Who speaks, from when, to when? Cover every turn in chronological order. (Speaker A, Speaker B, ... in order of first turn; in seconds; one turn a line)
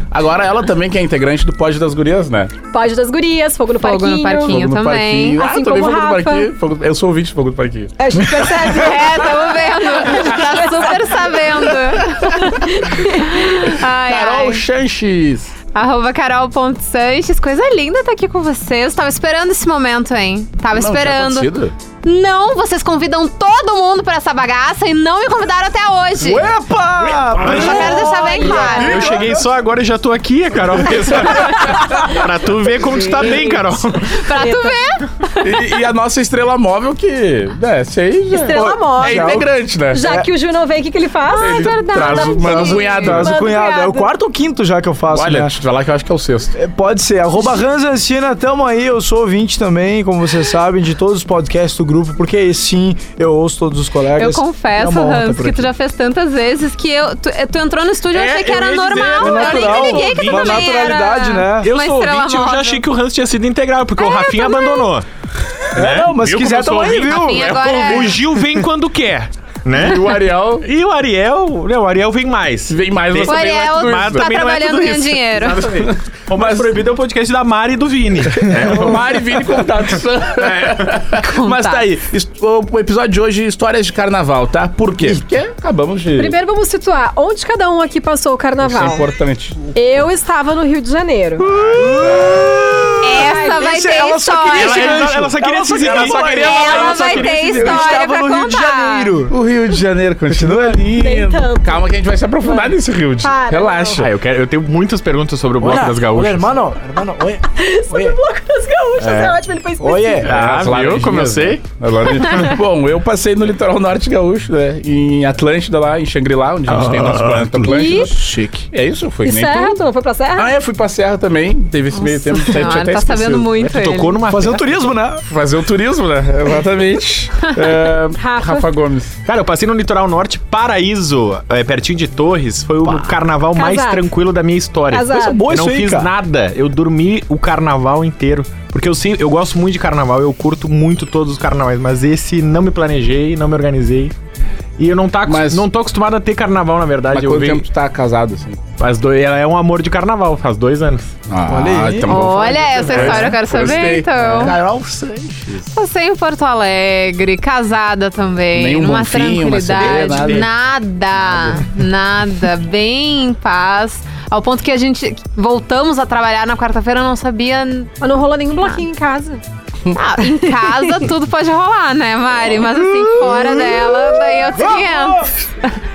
Speaker A: 0.1-2.5
Speaker B: 2.7-4.7
Speaker C: 3.8-5.4
Speaker A: 4.5-7.9
Speaker B: 5.4-6.5
Speaker B: 8.0-11.7
Speaker C: 8.7-14.6
Speaker B: 12.3-13.8
Speaker A: 13.9-15.5
Speaker C: 15.7-21.5
Speaker A: 20.8-21.7
Speaker C: 22.0-26.5
Speaker D: 26.2-29.5
Speaker E: 27.2-28.1
Speaker C: 27.4-29.1
Speaker B: 27.6-28.9
Speaker E: 28.7-34.2
Speaker B: 31.9-32.2
Speaker B: 32.8-35.0
Speaker C: 34.1-35.3
Speaker A: 35.4-40.0
Speaker B: 38.3-44.1
Speaker D: 38.5-40.3
Speaker A: 41.3-43.4
Speaker E: 41.9-42.9
Speaker D: 42.5-45.5
Speaker A: 45.1-46.5
Speaker D: 46.5-55.7
Speaker C: 54.1-62.8
Speaker E: 58.1-60.9
Speaker D: 59.2-61.7
Speaker E: 61.6-65.0
Speaker C: 64.0-64.9
Speaker E: 65.7-79.5
Speaker D: 65.7-68.1
Speaker C: 66.9-68.2
Speaker A: 69.7-70.7
Speaker A: 72.7-74.3
Speaker C: 73.2-75.6
Speaker A: 75.7-76.8
Speaker A: 78.4-86.4
Speaker E: 80.3-81.0
Speaker C: 81.2-81.9
Speaker B: 86.1-89.1
Speaker A: 88.6-89.7
Speaker B: 89.7-91.5
Speaker D: 91.4-99.3
Speaker A: 91.5-92.4
Speaker C: 93.0-95.1
Speaker B: 93.1-93.6
Speaker E: 94.5-96.3
Speaker A: 95.7-98.0
Speaker C: 96.2-99.1
Speaker A: 99.3-104.1
Speaker D: 100.3-100.8
Speaker B: 100.9-101.9
Speaker B: 102.4-104.1
Speaker E: 103.9-106.5
Speaker D: 105.6-108.2
Speaker B: 107.5-110.3
Speaker E: 109.0-109.4
Speaker D: 109.8-110.3
Speaker E: 110.2-111.6
Speaker A: 110.3-119.8
Speaker D: 116.8-117.2
Speaker E: 116.8-117.5
Speaker B: 117.6-118.3
Speaker B: 119.2-120.5
Speaker A: 120.3-123.5
Speaker C: 121.9-124.2
Speaker E: 123.5-124.7
Speaker D: 124.3-125.2
Speaker A: 125.2-129.1
Speaker B: 128.2-128.7
Speaker E: 129.2-144.1
Speaker B: 132.8-134.1
Speaker B: 134.9-135.4
Speaker D: 135.1-136.1
Speaker E: 144.8-147.7
Speaker A: 145.2-145.7
Speaker A: 147.1-148.6
Speaker E: 148.8-151.1
Speaker A: 151.3-155.7
Speaker D: 151.4-152.2
Speaker C: 152.1-154.6
Speaker E: 152.9-153.3
Speaker C: 155.7-167.9
Speaker A: 158.5-160.5
Speaker E: 159.8-160.5
Speaker B: 168.0-169.4
Speaker C: 169.9-175.7
Speaker B: 170.4-170.9
Speaker D: 172.6-175.3